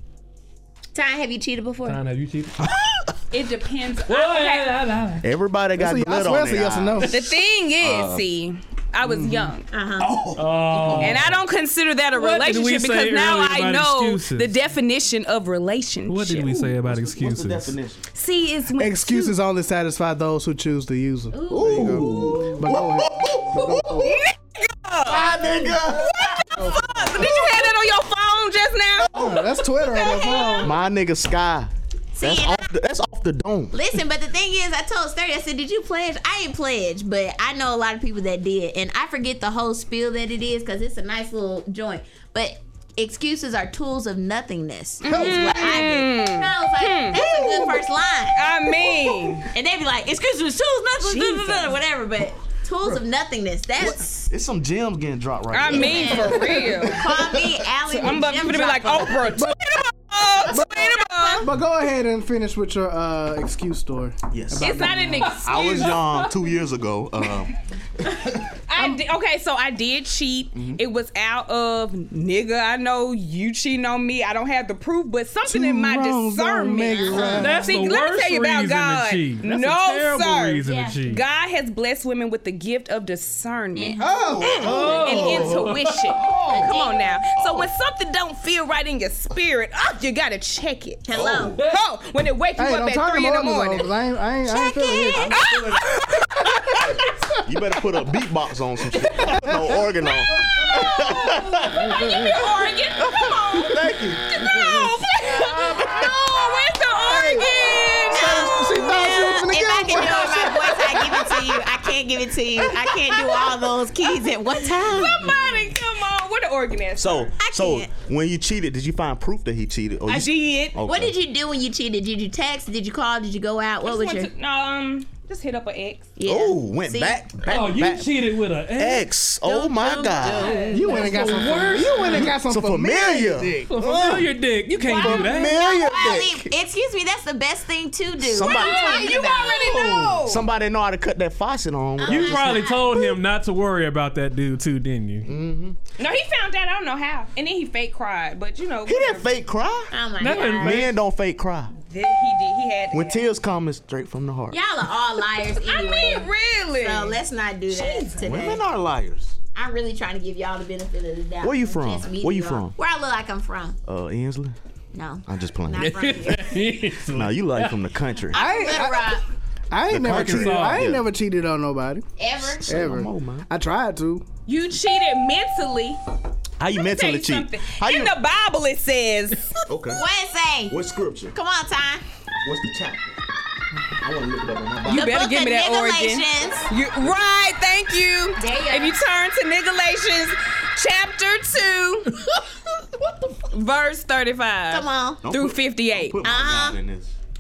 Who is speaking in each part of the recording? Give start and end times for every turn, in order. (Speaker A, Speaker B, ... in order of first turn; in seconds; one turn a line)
Speaker A: 0.9-2.0
Speaker B: 1.9-2.6
Speaker C: 2.6-3.1
Speaker D: 3.3-4.8
Speaker B: 4.1-5.3
Speaker C: 5.2-7.2
Speaker E: 5.8-7.2
Speaker D: 7.1-9.7
Speaker C: 7.8-8.2
Speaker B: 9.1-9.5
Speaker A: 9.7-10.1
Speaker C: 10.0-11.2
Speaker B: 10.3-11.4
Speaker D: 11.0-16.6
Speaker B: 12.2-14.5
Speaker B: 16.1-17.8
Speaker C: 16.5-18.0
Speaker D: 18.1-19.4
Speaker E: 18.8-24.2
Speaker A: 21.3-22.6
Speaker C: 21.5-24.1
Speaker D: 24.0-25.4
Speaker C: 25.1-27.4
Speaker D: 26.0-29.2
Speaker E: 26.6-27.3
Speaker C: 29.0-29.5
Speaker E: 29.1-30.7
Speaker D: 29.8-30.7
Speaker C: 30.6-31.7
Speaker A: 32.1-32.7
Speaker C: 32.2-33.7
Speaker A: 33.7-48.5
Speaker D: 45.0-47.2
Speaker E: 45.1-45.9
Speaker E: 47.1-47.8
Speaker D: 48.4-49.5
Speaker A: 49.5-54.3
Speaker D: 51.0-51.8
Speaker C: 53.8-58.1
Speaker D: 55.5-57.0
Speaker A: 55.7-59.4
Speaker E: 56.4-56.6
Speaker D: 57.9-61.5
Speaker E: 59.4-59.7
Speaker A: 60.2-61.5
Speaker E: 60.5-65.4
Speaker C: 64.3-68.5
Speaker D: 64.6-66.3
Speaker B: 65.3-66.2
Speaker D: 68.7-93.9
Speaker C: 70.5-70.8
Speaker E: 75.5-77.7
Speaker A: 76.9-77.6
Speaker B: 77.3-81.2
Speaker A: 80.7-81.0
Speaker A: 83.8-84.5
Speaker E: 84.0-85.5
Speaker C: 84.0-86.8
Speaker B: 84.7-86.1
Speaker A: 86.5-87.2
Speaker C: 87.3-87.7
Speaker A: 91.0-91.6
Speaker C: 91.1-91.6
Speaker E: 92.6-95.4
Speaker D: 94.5-96.9
Speaker B: 95.2-95.8
Speaker E: 96.5-97.3
Speaker C: 96.8-102.3
Speaker D: 99.8-100.2
Speaker D: 100.7-108.8
Speaker E: 101.9-102.3
Speaker C: 103.0-106.1
Speaker E: 107.0-111.6
Speaker A: 108.2-115.2
Speaker D: 114.2-117.3
Speaker C: 117.0-121.2
Speaker A: 117.4-117.9
Speaker D: 120.1-120.8
Speaker A: 120.8-124.3
Speaker D: 123.8-126.1
Speaker A: 126.2-127.2
Speaker C: 126.2-130.7
Speaker B: 127.5-129.1
Speaker A: 129.4-130.8
Speaker D: 130.2-130.9
Speaker B: 130.7-132.2
Speaker E: 130.7-133.8
Speaker C: 132.0-136.5
Speaker B: 133.7-135.6
Speaker D: 134.8-135.5
Speaker A: 135.3-139.8
Speaker C: 138.2-142.7
Speaker D: 138.4-140.5
Speaker B: 138.9-140.2
Speaker A: 142.0-143.1
Speaker B: 142.1-145.3
Speaker C: 145.2-145.8
Speaker D: 146.0-149.3
Speaker C: 148.9-149.9
Speaker A: 149.9-150.9
Speaker B: 150.2-150.9
Speaker C: 150.6-151.7
Speaker D: 151.8-153.3
Speaker C: 152.9-154.6
Speaker A: 154.5-158.6
Speaker D: 155.6-157.2
Speaker D: 157.7-158.1
Speaker C: 158.2-159.4
Speaker A: 159.6-163.8
Speaker C: 161.4-162.8
Speaker C: 163.9-164.6
Speaker A: 164.9-166.7
Speaker C: 165.3-166.1
Speaker B: 165.8-167.8
Speaker C: 167.1-168.4
Speaker A: 168.3-169.2
Speaker E: 168.3-169.2
Speaker E: 169.7-172.1
Speaker C: 169.9-171.1
Speaker B: 170.0-170.9
Speaker A: 172.2-172.7
Speaker C: 172.7-173.5
Speaker E: 172.7-174.3
Speaker D: 174.5-176.0
Speaker C: 176.6-178.1
Speaker D: 176.7-179.6
Speaker C: 179.7-180.0
Speaker A: 179.9-180.8
Speaker C: 180.7-181.4
Speaker A: 181.3-182.0
Speaker C: 182.4-183.2
Speaker C: 184.0-185.1
Speaker D: 184.8-192.2
Speaker A: 184.9-186.7
Speaker A: 188.4-189.0
Speaker D: 193.5-196.2
Speaker A: 194.7-195.2
Speaker C: 195.2-197.1
Speaker A: 196.2-196.8